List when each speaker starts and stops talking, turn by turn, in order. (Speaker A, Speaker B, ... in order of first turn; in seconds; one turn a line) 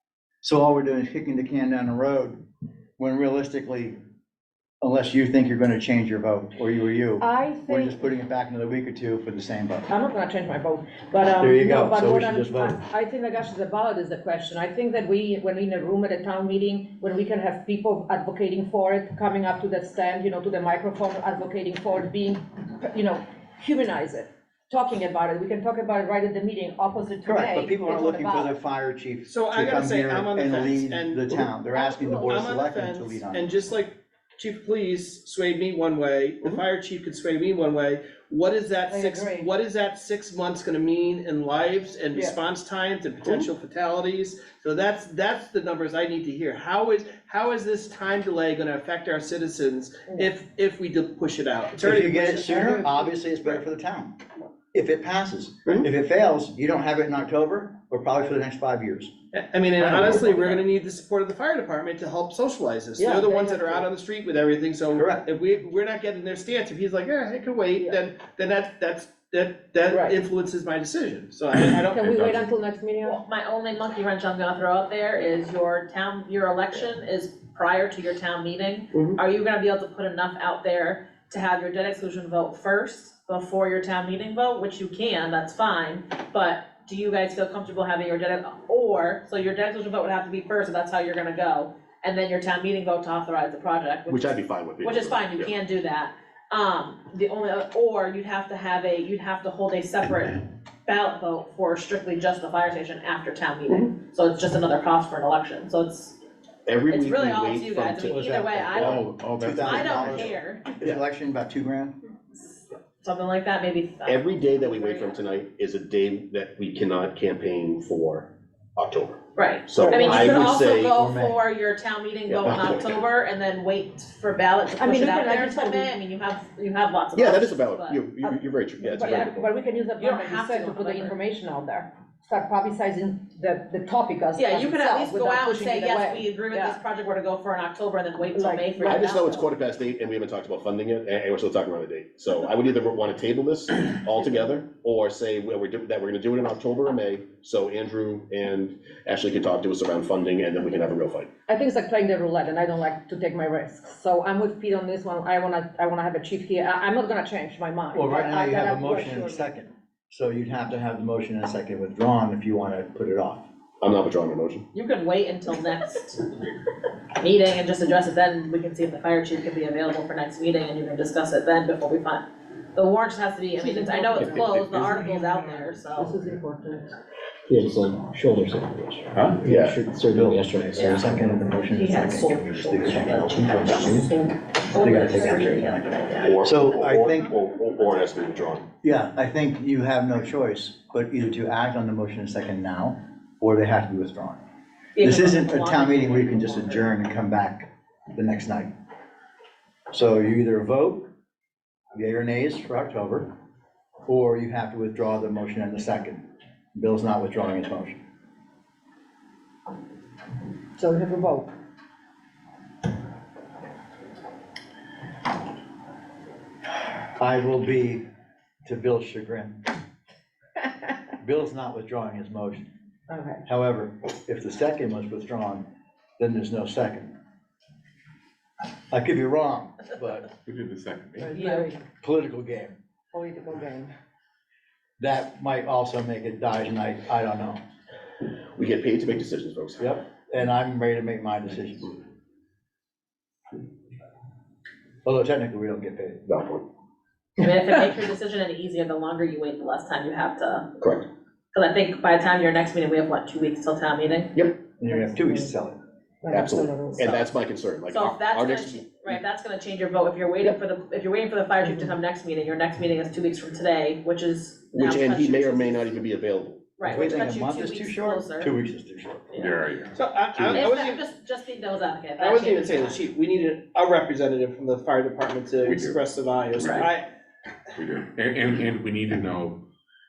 Speaker A: 0.4-2.4
Speaker A: 3.0-4.0
Speaker A: 4.8-9.9
Speaker B: 7.2-8.0
Speaker B: 9.9-28.5
Speaker A: 11.4-12.8
Speaker A: 27.2-33.5
Speaker C: 29.3-52.5
Speaker B: 31.7-32.2
Speaker B: 38.9-39.5
Speaker A: 51.8-54.2
Speaker B: 52.2-53.1
Speaker A: 54.7-59.1
Speaker C: 59.3-72.0
Speaker B: 63.0-63.9
Speaker A: 64.9-65.2
Speaker B: 69.9-70.2
Speaker B: 71.9-73.2
Speaker D: 72.0-72.5
Speaker E: 73.0-106.2
Speaker F: 94.1-95.5
Speaker F: 106.7-109.0
Speaker E: 106.9-109.0
Speaker A: 108.0-111.9
Speaker D: 108.8-110.4
Speaker E: 109.5-110.8
Speaker E: 112.3-115.4
Speaker F: 114.0-121.0
Speaker E: 119.3-128.0
Speaker B: 119.9-120.2
Speaker A: 120.0-121.3
Speaker F: 122.3-123.0
Speaker B: 124.8-126.0
Speaker F: 127.1-129.5
Speaker B: 128.8-136.8
Speaker E: 129.0-129.3
Speaker E: 130.0-131.2
Speaker E: 134.3-139.3
Speaker B: 138.3-139.4
Speaker F: 138.8-151.3
Speaker B: 151.5-159.5
Speaker A: 157.9-163.4
Speaker F: 163.8-164.7
Speaker E: 164.7-166.4
Speaker E: 167.2-176.2
Speaker B: 173.6-174.4
Speaker D: 174.2-175.0
Speaker B: 176.0-176.8
Speaker G: 177.5-181.3
Speaker F: 179.4-179.8
Speaker A: 179.4-184.1
Speaker E: 180.7-186.4
Speaker G: 183.3-184.1
Speaker A: 184.8-185.8
Speaker G: 185.0-185.5
Speaker F: 186.2-188.7
Speaker A: 186.4-187.3
Speaker A: 188.8-194.4
Speaker E: 194.9-196.9
Speaker A: 195.0-198.7
Speaker A: 199.9-201.1
Speaker A: 201.9-203.3
Speaker A: 204.1-208.0
Speaker B: 210.8-211.5
Speaker A: 217.2-218.0
Speaker A: 218.6-219.6
Speaker A: 221.2-222.7
Speaker B: 223.1-223.4
Speaker A: 223.4-225.7
Speaker A: 226.2-227.1
Speaker A: 228.9-230.3
Speaker D: 230.4-231.4
Speaker B: 231.2-231.8
Speaker E: 231.3-231.7
Speaker A: 232.0-232.8
Speaker B: 233.1-233.9
Speaker A: 235.0-237.6
Speaker F: 238.5-239.9
Speaker A: 239.8-241.9
Speaker A: 245.0-246.2
Speaker F: 246.3-246.6
Speaker E: 247.4-250.7
Speaker F: 250.8-251.1
Speaker E: 251.5-254.3
Speaker A: 254.8-255.8
Speaker B: 254.9-255.5
Speaker B: 256.2-257.1
Speaker F: 256.3-259.2
Speaker E: 257.9-266.0
Speaker F: 264.7-266.7
Speaker E: 266.8-268.5
Speaker A: 266.8-269.3
Speaker E: 269.3-269.6
Speaker D: 269.4-270.0
Speaker C: 269.9-271.0
Speaker E: 270.5-273.0
Speaker C: 272.2-277.1
Speaker D: 275.6-276.9
Speaker D: 277.8-279.6